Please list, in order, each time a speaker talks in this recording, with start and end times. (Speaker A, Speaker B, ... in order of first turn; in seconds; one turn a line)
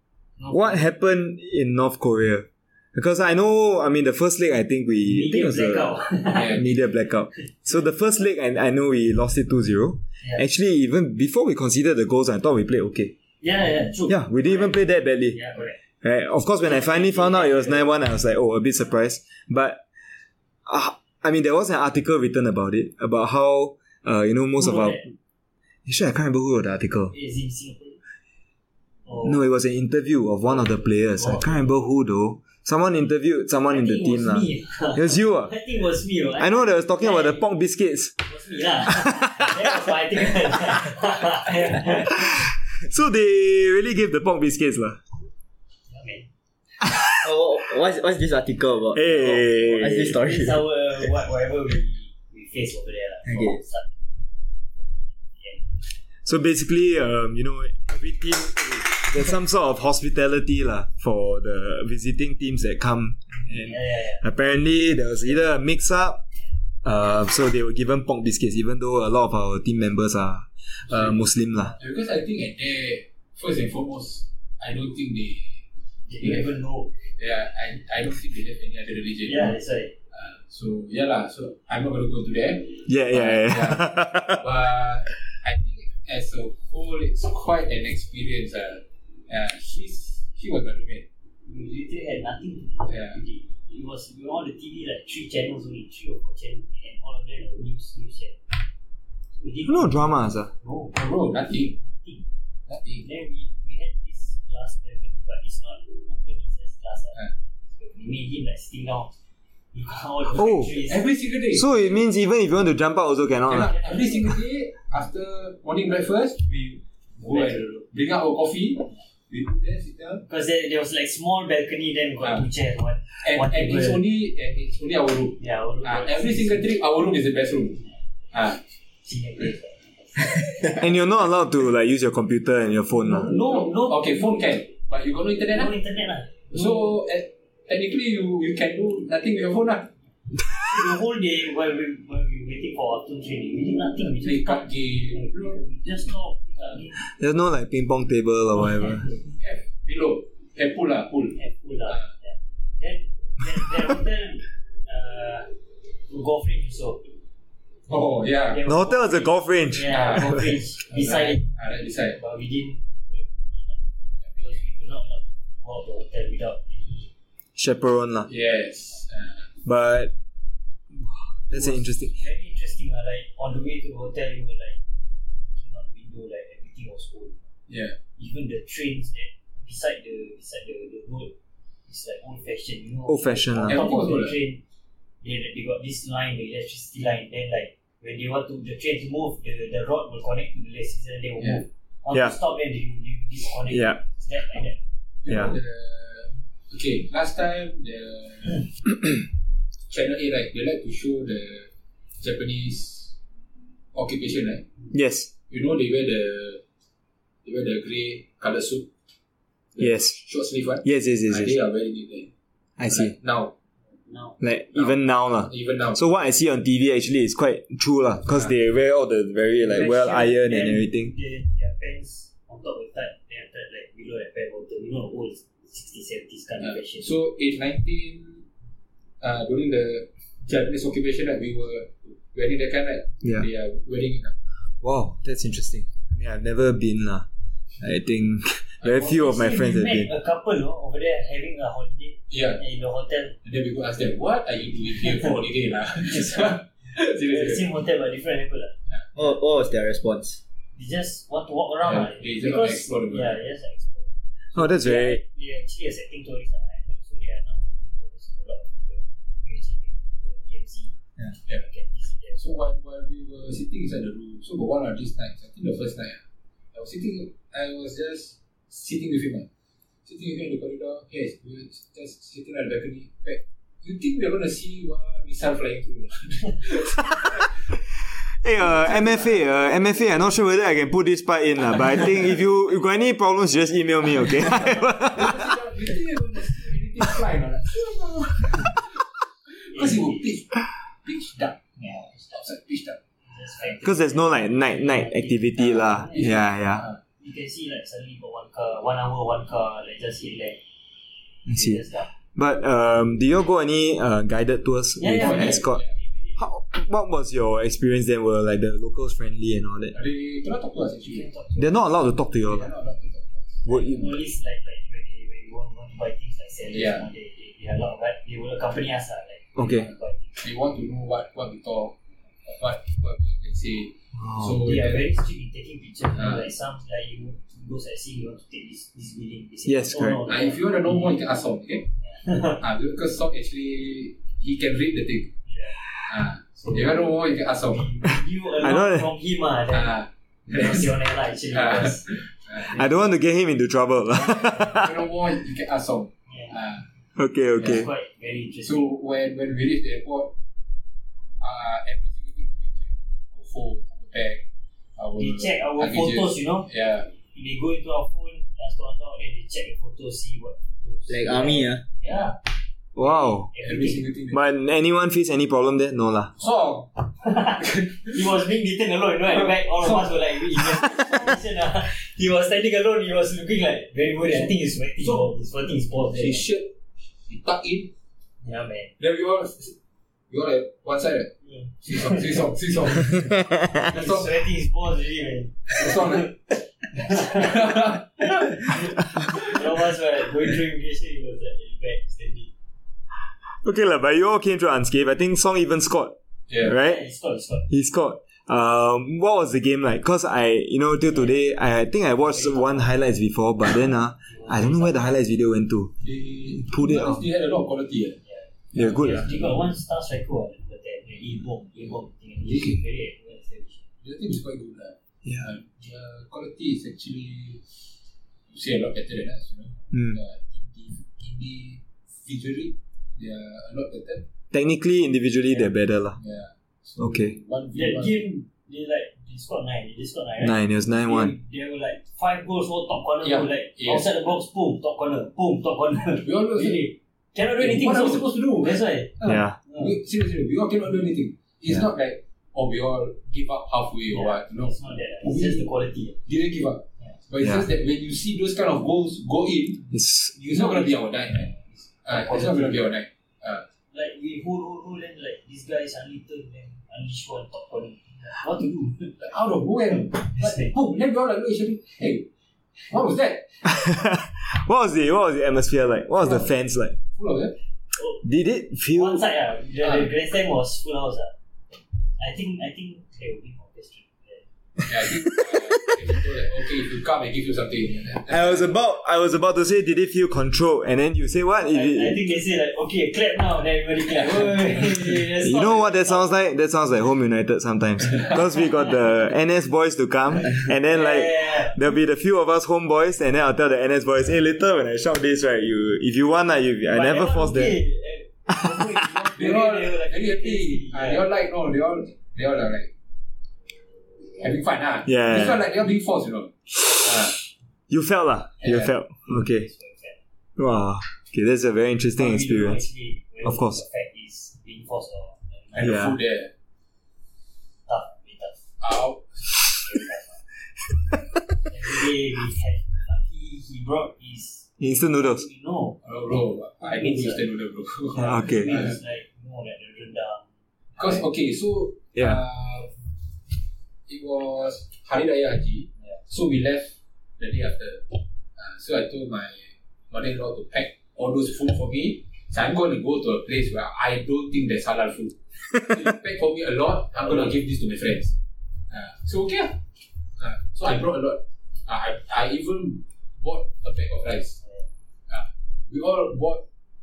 Speaker A: 0.4-0.8
Speaker B: 0.5-13.1
Speaker A: 5.0-6.6
Speaker C: 6.3-6.6
Speaker A: 13.4-15.8
Speaker B: 14.1-15.4
Speaker B: 16.0-19.9
Speaker A: 16.6-17.9
Speaker B: 20.7-25.1
Speaker A: 24.6-25.1
Speaker B: 25.9-27.1
Speaker A: 27.1-28.0
Speaker A: 29.1-29.4
Speaker B: 29.2-35.5
Speaker A: 30.5-31.6
Speaker A: 33.7-37.4
Speaker B: 36.4-38.2
Speaker A: 38.2-42.4
Speaker B: 39.1-39.5
Speaker B: 42.0-45.0
Speaker A: 45.9-46.3
Speaker B: 46.8-47.2
Speaker D: 47.2-50.6
Speaker B: 48.9-50.3
Speaker A: 50.0-54.0
Speaker D: 53.2-53.6
Speaker A: 54.7-55.7
Speaker B: 56.2-66.2
Speaker A: 63.6-64.2
Speaker B: 66.8-71.8
Speaker C: 70.9-71.2
Speaker C: 71.8-75.6
Speaker A: 76.1-76.9
Speaker C: 76.2-76.5
Speaker C: 77.2-79.6
Speaker A: 79.3-79.9
Speaker C: 80.1-91.1
Speaker B: 82.9-84.5
Speaker A: 91.4-98.5
Speaker C: 92.9-93.2
Speaker A: 99.4-102.3
Speaker B: 99.7-100.5
Speaker C: 101.0-101.8
Speaker C: 102.7-103.0
Speaker A: 102.9-109.1
Speaker A: 109.7-111.0
Speaker B: 110.4-110.8
Speaker C: 110.8-111.7
Speaker B: 111.5-113.7
Speaker C: 113.5-120.2
Speaker A: 113.6-114.3
Speaker A: 117.2-117.8
Speaker A: 120.3-124.0
Speaker C: 122.2-122.5
Speaker C: 123.2-128.6
Speaker A: 125.4-126.6
Speaker A: 129.0-130.8
Speaker B: 130.6-133.3
Speaker A: 133.0-134.5
Speaker C: 133.3-135.8
Speaker A: 135.5-136.9
Speaker C: 136.5-139.9
Speaker A: 140.5-147.0
Speaker C: 144.2-145.6
Speaker B: 147.0-149.2
Speaker A: 148.6-149.1
Speaker C: 149.4-152.1
Speaker A: 151.3-155.5
Speaker A: 156.1-157.1
Speaker C: 157.9-158.6
Speaker A: 158.5-161.5
Speaker B: 158.7-160.4
Speaker C: 159.9-162.2
Speaker A: 162.1-167.1
Speaker C: 164.2-164.6
Speaker B: 167.6-168.3
Speaker C: 168.3-169.5
Speaker B: 169.7-170.1
Speaker B: 170.9-172.1
Speaker A: 171.5-174.8
Speaker A: 175.5-177.5
Speaker C: 177.7-178.0
Speaker A: 178.2-181.3
Speaker A: 181.9-184.6
Speaker B: 183.1-183.8
Speaker C: 183.7-184.3
Speaker A: 185.2-194.8
Speaker B: 193.7-194.0
Speaker C: 195.2-198.7
Speaker B: 195.3-195.6
Speaker C: 199.9-201.7
Speaker C: 202.2-203.2
Speaker C: 203.9-204.7
Speaker B: 204.9-205.3
Speaker C: 205.5-206.6
Speaker C: 207.4-208.9
Speaker C: 209.7-212.3
Speaker B: 209.8-210.2
Speaker B: 210.8-211.6
Speaker B: 212.8-213.1
Speaker C: 212.9-213.5
Speaker A: 214.0-214.4
Speaker B: 214.4-221.1
Speaker C: 214.7-216.0
Speaker A: 219.6-227.1
Speaker C: 226.6-228.5
Speaker C: 229.2-234.3
Speaker B: 233.2-233.5
Speaker B: 234.8-237.3
Speaker B: 237.8-240.1
Speaker C: 238.8-239.1
Speaker A: 238.9-243.4
Speaker C: 242.3-242.6
Speaker C: 243.4-247.7
Speaker A: 246.2-246.5
Speaker A: 247.2-248.7
Speaker D: 249.2-250.4
Speaker A: 250.8-262.4
Speaker C: 251.8-253.4
Speaker B: 254.5-255.2
Speaker C: 262.4-266.2
Speaker C: 266.7-269.5
Speaker C: 270.1-277.5
Speaker B: 278.4-285.5
Speaker C: 278.6-279.4
Speaker C: 284.4-291.6
Speaker A: 289.7-290.3
Speaker A: 291.8-292.3
Speaker C: 292.2-293.0
Speaker A: 293.2-296.5
Speaker B: 293.8-296.9
Speaker C: 296.1-297.0
Speaker A: 297.2-300.6
Speaker B: 301.5-301.8
Speaker A: 301.5-302.1
Speaker B: 302.4-305.8
Speaker A: 305.0-306.5
Speaker C: 305.1-305.9
Speaker B: 306.4-310.0
Speaker C: 309.9-311.3
Speaker A: 311.1-311.9
Speaker B: 311.6-312.7
Speaker C: 312.4-313.6
Speaker B: 313.6-314.2
Speaker A: 313.7-320.5
Speaker C: 316.7-317.1
Speaker B: 319.6-319.9
Speaker C: 320.4-325.1
Speaker B: 324.2-324.6
Speaker A: 324.6-331.1
Speaker C: 326.2-326.5
Speaker B: 329.7-330.2
Speaker C: 330.3-331.9
Speaker A: 332.0-332.6
Speaker C: 332.6-335.4
Speaker A: 335.5-335.8
Speaker C: 336.0-337.9
Speaker A: 336.6-340.0
Speaker B: 338.6-339.1
Speaker C: 339.7-340.9
Speaker A: 340.5-342.9
Speaker C: 341.5-342.8
Speaker B: 342.7-344.9
Speaker C: 344.2-346.9
Speaker A: 344.4-344.8
Speaker A: 346.3-346.6
Speaker B: 347.2-347.9
Speaker C: 347.6-347.8
Speaker A: 347.6-349.0
Speaker C: 348.7-350.3
Speaker C: 351.4-354.4
Speaker C: 355.0-357.1
Speaker A: 355.2-356.7
Speaker A: 357.3-362.4
Speaker D: 361.1-361.8
Speaker B: 363.0-363.5
Speaker A: 363.0-364.0
Speaker C: 363.6-364.4
Speaker B: 364.3-366.4
Speaker C: 366.4-366.9
Speaker A: 367.2-376.5
Speaker C: 367.6-368.1
Speaker C: 369.4-370.2
Speaker C: 374.2-375.3
Speaker C: 376.0-376.7
Speaker C: 377.3-377.9
Speaker A: 378.4-378.9
Speaker C: 379.0-379.8
Speaker C: 380.3-381.3
Speaker A: 381.4-382.4
Speaker C: 381.8-384.4
Speaker A: 383.8-386.3
Speaker C: 385.7-386.4
Speaker A: 386.9-392.5
Speaker C: 387.1-388.7
Speaker B: 393.6-397.0
Speaker C: 396.5-396.8
Speaker A: 396.7-397.7
Speaker B: 397.7-405.9
Speaker A: 401.1-401.4
Speaker A: 402.3-402.9
Speaker A: 404.3-405.1
Speaker C: 406.0-408.2
Speaker B: 406.6-407.2
Speaker A: 408.2-413.8
Speaker B: 408.7-409.3
Speaker C: 408.8-409.6
Speaker C: 412.4-412.8
Speaker C: 414.0-417.6
Speaker C: 418.5-424.2
Speaker B: 419.9-420.2
Speaker B: 424.5-426.2
Speaker C: 426.2-428.2
Speaker B: 427.0-427.4
Speaker A: 427.7-439.9
Speaker B: 430.4-431.4
Speaker C: 433.2-434.1
Speaker C: 436.2-436.8
Speaker C: 437.6-445.7
Speaker B: 439.2-439.6
Speaker A: 444.1-446.2
Speaker C: 446.2-451.5
Speaker B: 447.4-447.7
Speaker B: 449.9-450.4
Speaker A: 450.5-452.8
Speaker C: 452.0-453.6
Speaker A: 453.9-459.2
Speaker C: 459.2-462.3
Speaker A: 459.9-460.7
Speaker C: 462.8-463.6
Speaker B: 463.6-467.0
Speaker C: 467.1-467.6
Speaker A: 467.9-468.2
Speaker B: 468.2-469.2
Speaker A: 468.9-471.3
Speaker C: 469.8-470.1
Speaker A: 472.2-474.4
Speaker C: 474.9-478.6
Speaker B: 478.3-482.2
Speaker A: 481.7-486.3
Speaker C: 484.1-485.2
Speaker B: 485.4-497.8
Speaker A: 490.9-491.8
Speaker A: 496.9-501.3
Speaker C: 499.2-502.9
Speaker C: 504.4-507.4
Speaker B: 505.1-505.6
Speaker B: 506.9-507.2
Speaker B: 507.9-509.7
Speaker C: 508.6-508.9
Speaker A: 509.3-510.2
Speaker B: 510.6-512.9
Speaker A: 512.2-516.0
Speaker B: 513.4-513.8
Speaker C: 515.7-516.5
Speaker B: 515.8-516.1
Speaker A: 517.9-518.6
Speaker C: 518.8-519.7
Speaker A: 519.8-520.4
Speaker A: 521.7-526.0
Speaker B: 524.8-525.5
Speaker C: 526.0-529.0
Speaker A: 526.8-527.4
Speaker A: 528.1-531.2
Speaker B: 528.2-528.9
Speaker C: 531.0-533.0
Speaker B: 532.2-532.4
Speaker C: 534.1-548.4
Speaker A: 547.1-547.6
Speaker C: 548.9-549.8
Speaker C: 550.4-554.6
Speaker A: 554.6-554.9
Speaker C: 555.3-556.6